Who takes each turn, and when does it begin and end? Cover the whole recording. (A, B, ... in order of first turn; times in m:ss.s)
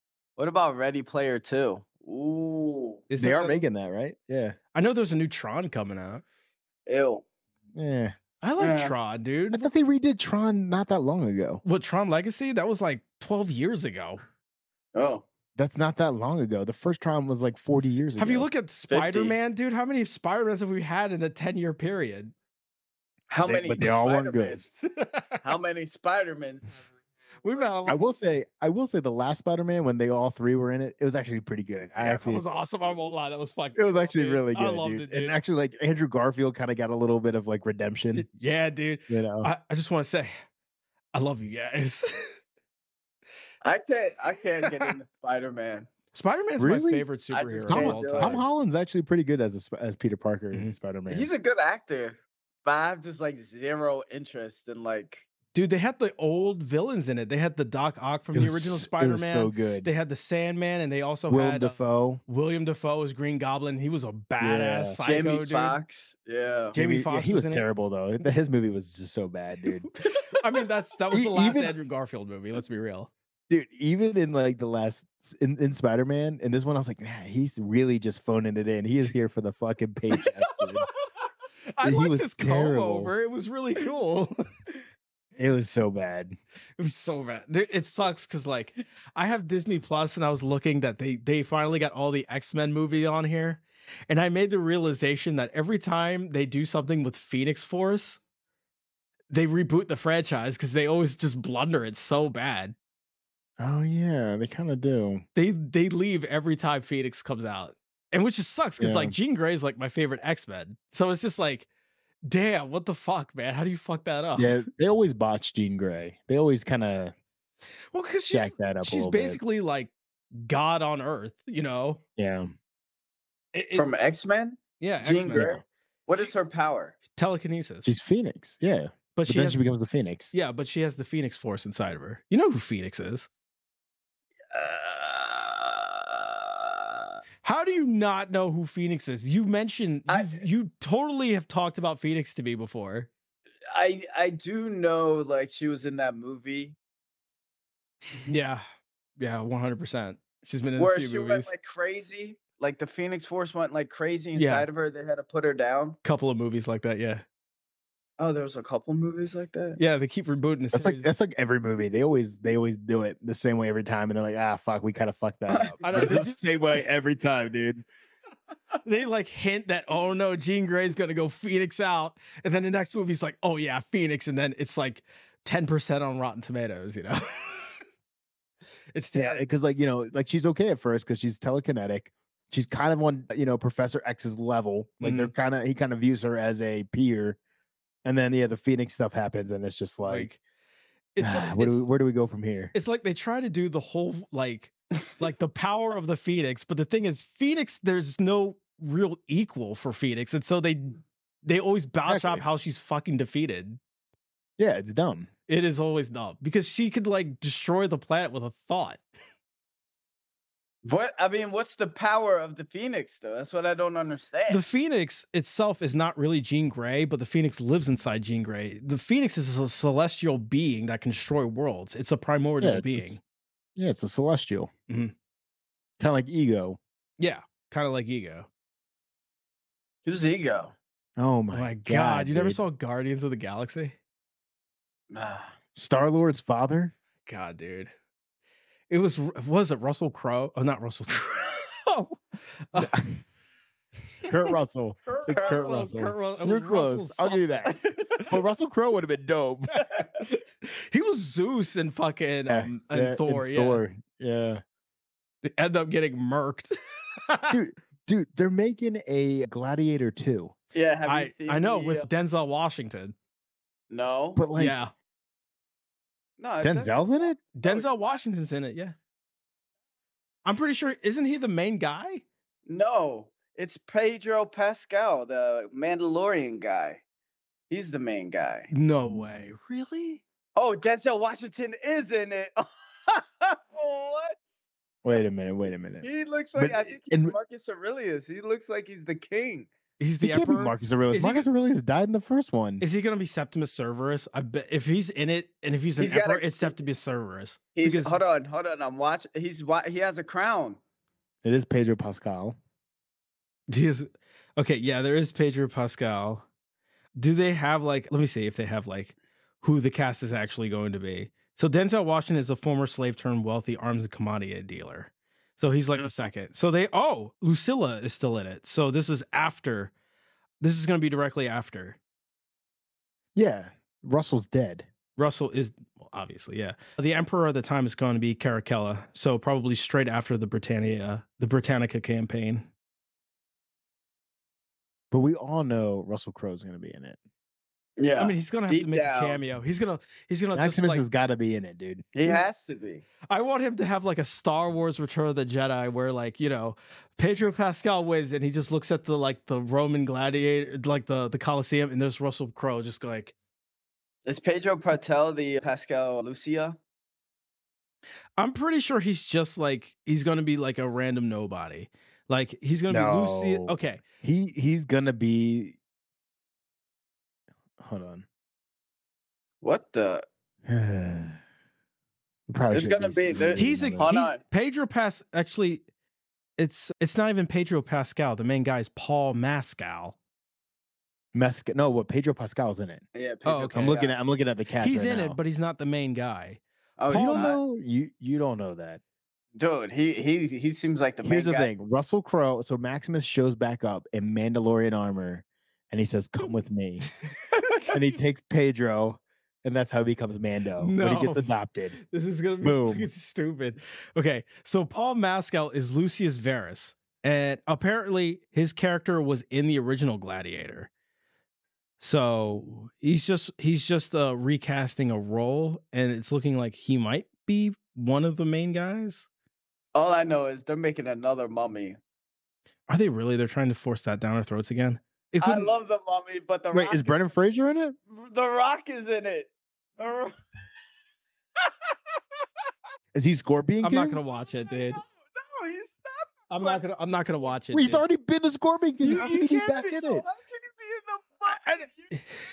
0:00.4-0:03.0 A
0:03.1-0:03.6 B
0:03.2-0:04.6 C
0:04.7-0:06.2 B
0:06.8-0:07.2 A
0:07.7-0:08.2 C
0:08.4-0:09.7 B
0:08.6-0:09.0 A
0:09.5-0:11.6 C
0:11.6-0:14.2 B
0:14.9-0:15.2 A
0:15.6-0:18.5 C
0:18.2-0:22.3 B
0:18.9-0:19.4 A
0:23.3-0:24.6 A
0:23.4-0:24.6 C
0:24.7-0:25.5 B
0:25.4-0:26.9 A
0:27.4-0:28.0 B
0:27.8-0:32.4 C
0:32.0-0:35.4 B
0:33.7-0:38.2 C
0:38.1-0:40.3 B
0:39.1-0:39.5 C
0:41.1-0:42.4 B
0:43.6-0:45.9 A
0:44.6-0:44.9 B
0:46.1-0:48.4 B
0:46.6-0:47.0 C
0:47.3-0:48.4 A
0:47.7-0:51.3 C
0:51.1-0:55.2 A
0:55.5-1:05.8 B
0:58.3-0:59.9 C
1:01.3-1:02.2 C
1:04.4-1:05.0 C
1:05.0-1:06.8 A
1:06.7-1:07.7 B
1:06.7-1:09.9 C
1:09.9-1:13.1 B
1:11.1-1:11.7 C
1:13.5-1:20.9 C
1:20.5-1:20.8 B
1:21.7-1:24.3 B
1:21.8-1:23.1 C
1:25.4-1:26.4 C
1:26.8-1:38.2 B
1:39.3-1:42.7 B
1:43.6-1:45.2 C
1:45.3-1:51.7 B
1:48.8-1:49.2 C
1:52.2-1:54.6 B
1:54.4-1:57.1 C
1:57.9-2:02.0 B
1:58.3-1:59.4 C
2:02.2-2:02.5 C
2:03.5-2:03.9 B
2:03.7-2:06.9 A
2:04.8-2:05.6 B
2:07.1-2:08.0 B
2:07.8-2:10.3 C
2:09.1-2:09.6 B
2:10.3-2:13.3 B
2:14.5-2:17.1 A
2:17.4-2:23.1 B
2:20.1-2:20.4 A
2:23.7-2:26.8 A
2:28.2-2:28.6 B
2:29.2-2:31.5 B
2:30.8-2:36.0 A
2:34.3-2:34.7 B
2:36.0-2:37.2 B
2:38.2-2:39.8 A
2:39.8-2:41.1 B
2:40.7-2:47.8 C
2:45.5-2:46.2 A
2:45.8-2:46.4 B
2:48.8-2:57.8 B
2:58.9-2:59.4 B
2:59.1-3:07.4 C
3:05.0-3:05.3 B
3:08.0-3:10.3 C
3:10.0-3:10.4 B
3:11.1-3:11.8 B
3:11.2-3:12.7 C
3:12.7-3:23.8 B
3:22.1-3:22.4 C
3:24.6-3:25.3 C
3:25.5-3:29.0 B
3:30.8-3:34.6 A
3:34.5-3:43.2 B
3:42.6-3:43.2 C
3:43.8-3:44.7 C
3:44.9-3:45.1 B
3:46.0-3:46.8 C
3:47.2-3:48.5 B
3:50.0-3:50.7 A
3:51.2-3:52.6 C
3:51.5-3:54.0 B
3:55.1-3:55.5 A
3:55.7-3:56.9 C
3:57.2-3:57.9 B
3:58.9-4:02.2 B
4:02.7-4:03.0 B
4:02.8-4:03.2 C
4:04.3-4:07.8 C
4:05.1-4:07.7 B
4:05.3-4:05.9 A
4:07.6-4:08.3 A
4:08.3-4:09.7 C
4:09.8-4:10.0 A
4:10.1-4:13.8 B
4:12.5-4:14.6 C
4:15.4-4:16.7 B
4:17.3-4:17.6 B
4:17.5-4:20.5 C
4:20.7-4:22.1 A
4:21.0-4:23.1 B
4:23.9-4:24.4 A
4:24.3-4:24.8 C
4:24.6-4:24.9 B
4:26.4-4:28.2 A
4:26.6-4:27.4 C
4:27.5-4:28.9 B
4:30.4-4:32.2 B
4:32.6-4:37.0 A
4:37.7-4:38.7 A
4:38.7-4:40.2 B
4:40.6-4:44.4 A
4:45.0-4:47.4 C
4:46.0-4:49.7 A
4:50.0-4:51.5 B
4:50.2-4:52.8 C
4:52.8-4:58.2 B
4:56.0-4:56.8 A
4:57.7-5:00.8 A
5:01.4-5:02.6 C
5:03.7-5:06.4 B
5:07.2-5:19.9 B
5:16.0-5:16.3 A
5:20.6-5:22.0 B
5:23.3-5:24.9 C
5:25.2-5:32.7 B
5:35.1-5:37.2 C
5:38.0-5:39.4 A
5:38.2-5:41.0 B
5:40.5-5:42.4 C
5:42.1-5:43.0 A
5:43.3-5:53.3 B
5:54.2-5:56.8 A
5:58.4-6:04.0 B
6:02.9-6:05.8 C
6:07.8-6:08.2 C
6:09.6-6:10.2 A
6:10.7-6:11.4 C
6:12.5-6:14.1 C
6:12.7-6:14.4 A
6:13.6-6:15.8 B
6:16.6-6:20.2 B
6:21.3-6:23.0 C
6:23.1-6:24.2 A
6:23.4-6:24.0 B
6:23.8-6:25.4 C
6:24.8-6:27.6 B
6:27.0-6:27.6 A
6:27.1-6:29.0 C
6:29.6-6:31.7 A
6:31.2-6:37.0 C
6:37.0-6:38.2 B
6:37.9-6:42.0 C
6:40.8-6:50.9 B
6:42.6-6:43.1 C
6:52.0-6:59.3 B
6:59.9-7:02.0 A
7:02.9-7:05.7 B
7:05.4-7:07.2 A
7:06.7-7:08.0 C
7:08.1-7:10.4 A
7:11.6-7:11.9 A
7:13.1-7:14.2 C
7:13.8-7:15.0 B
7:14.4-7:16.8 A
7:16.5-7:18.0 B
7:17.7-7:20.2 C
7:19.0-7:19.8 B
7:19.2-7:22.1 A
7:21.5-7:22.2 B